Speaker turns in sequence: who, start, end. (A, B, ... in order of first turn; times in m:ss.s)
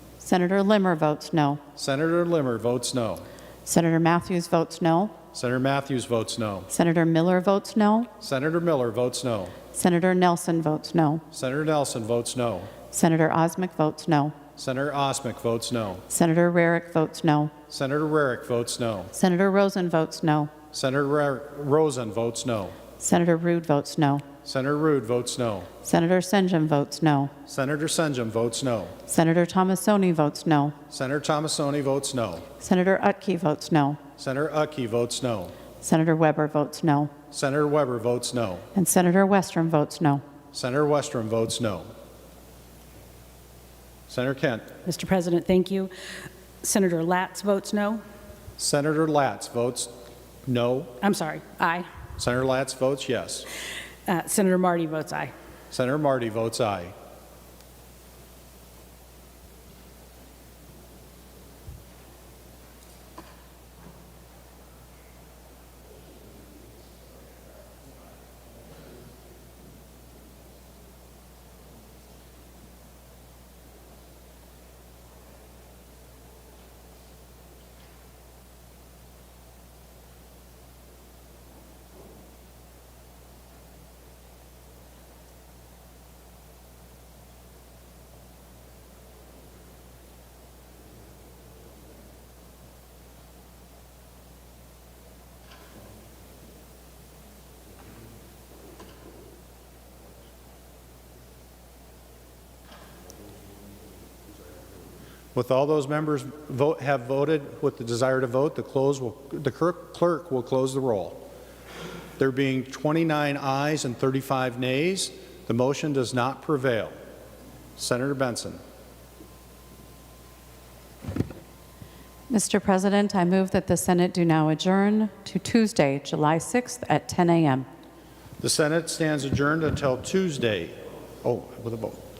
0:00.2-0:01.6 A
0:01.8-0:03.2 B
0:03.6-0:05.2 A
0:05.3-0:06.7 B
0:06.7-0:08.1 A
0:08.2-0:09.6 B
0:09.7-0:11.2 A
0:11.3-0:12.7 B
0:12.9-0:14.4 A
0:14.6-0:16.0 B
0:16.1-0:17.6 A
0:17.7-0:19.1 B
0:19.1-0:20.5 A
0:20.7-0:22.8 B
0:23.0-0:24.3 A
0:24.4-0:25.7 B
0:25.8-0:27.3 A
0:27.4-0:29.0 B
0:29.0-0:30.8 A
0:30.9-0:32.5 B
0:32.6-0:34.0 A
0:34.2-0:35.5 B
0:35.8-0:37.1 A
0:37.3-0:38.7 B
0:38.7-0:40.2 A
0:40.5-0:41.9 B
0:44.1-0:44.7 B
0:44.8-0:45.9 C
0:46.6-0:48.0 C
0:48.6-0:49.9 B
0:50.4-0:51.0 B
0:51.0-0:51.9 C
0:52.2-0:53.5 B
0:54.0-0:55.3 C
0:55.7-0:56.9 B
1:45.3-1:51.2 B
1:52.2-1:56.9 B
1:57.8-1:58.6 B
2:02.3-2:07.7 A
2:08.4-2:12.0 B